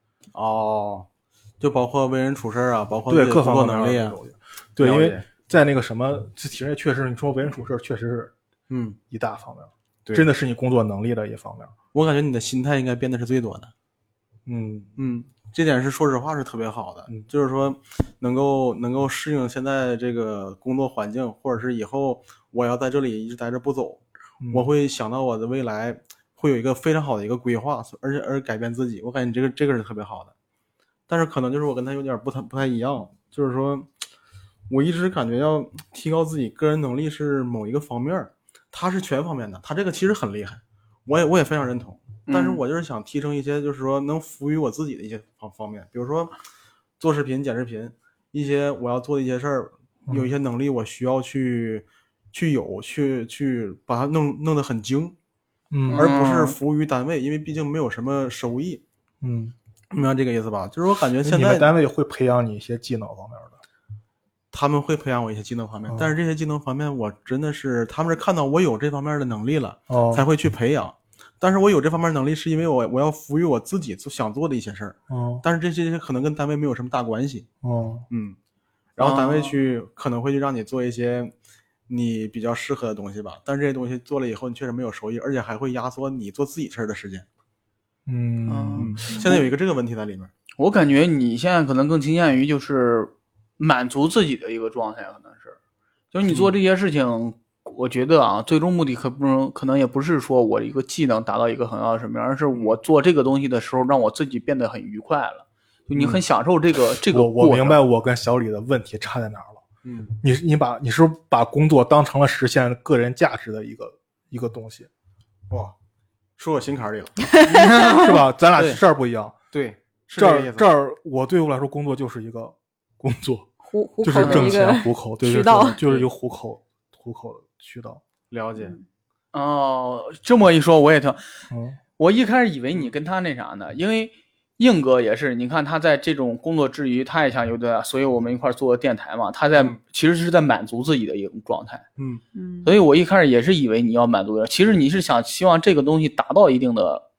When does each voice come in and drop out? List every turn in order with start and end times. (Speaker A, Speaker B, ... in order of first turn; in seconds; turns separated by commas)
Speaker A: 0.3-1.1, Speaker A: 1.6-4.2, Speaker B: 3.1-8.3, Speaker A: 4.8-5.2, Speaker A: 8.7-9.0, Speaker B: 9.1-11.7, Speaker A: 11.9-13.7, Speaker B: 14.4-15.0, Speaker A: 15.0-30.3, Speaker B: 24.4-24.7, Speaker A: 31.1-33.9, Speaker A: 34.7-46.4, Speaker C: 42.3-42.6, Speaker A: 47.0-55.2, Speaker B: 55.7-56.1, Speaker C: 55.9-56.6, Speaker A: 55.9-58.8, Speaker B: 59.2-59.5, Speaker A: 59.9-61.7, Speaker B: 61.2-63.6, Speaker A: 64.5-77.5, Speaker B: 65.9-66.1, Speaker B: 69.9-70.2, Speaker B: 75.1-75.4, Speaker B: 77.6-78.1, Speaker A: 78.1-78.4, Speaker A: 79.0-81.3, Speaker C: 79.0-79.5, Speaker A: 81.9-87.3, Speaker B: 88.1-89.4, Speaker C: 88.5-89.4, Speaker A: 88.8-90.3, Speaker C: 90.6-95.6, Speaker C: 96.1-107.8, Speaker A: 96.3-96.5, Speaker B: 107.1-109.6, Speaker A: 109.8-110.2, Speaker B: 110.2-114.9, Speaker A: 115.5-115.8, Speaker A: 116.4-117.2, Speaker D: 117.3-118.2, Speaker B: 117.5-119.3, Speaker A: 118.6-118.8, Speaker A: 119.5-120.7, Speaker B: 120.2-123.5, Speaker D: 123.7-125.8, Speaker B: 124.0-128.0, Speaker C: 124.2-124.5, Speaker A: 128.3-128.8, Speaker D: 128.6-128.8, Speaker C: 129.3-131.4, Speaker B: 131.5-131.8, Speaker C: 132.0-141.8, Speaker A: 142.0-142.2, Speaker D: 142.3-142.7, Speaker C: 142.6-147.0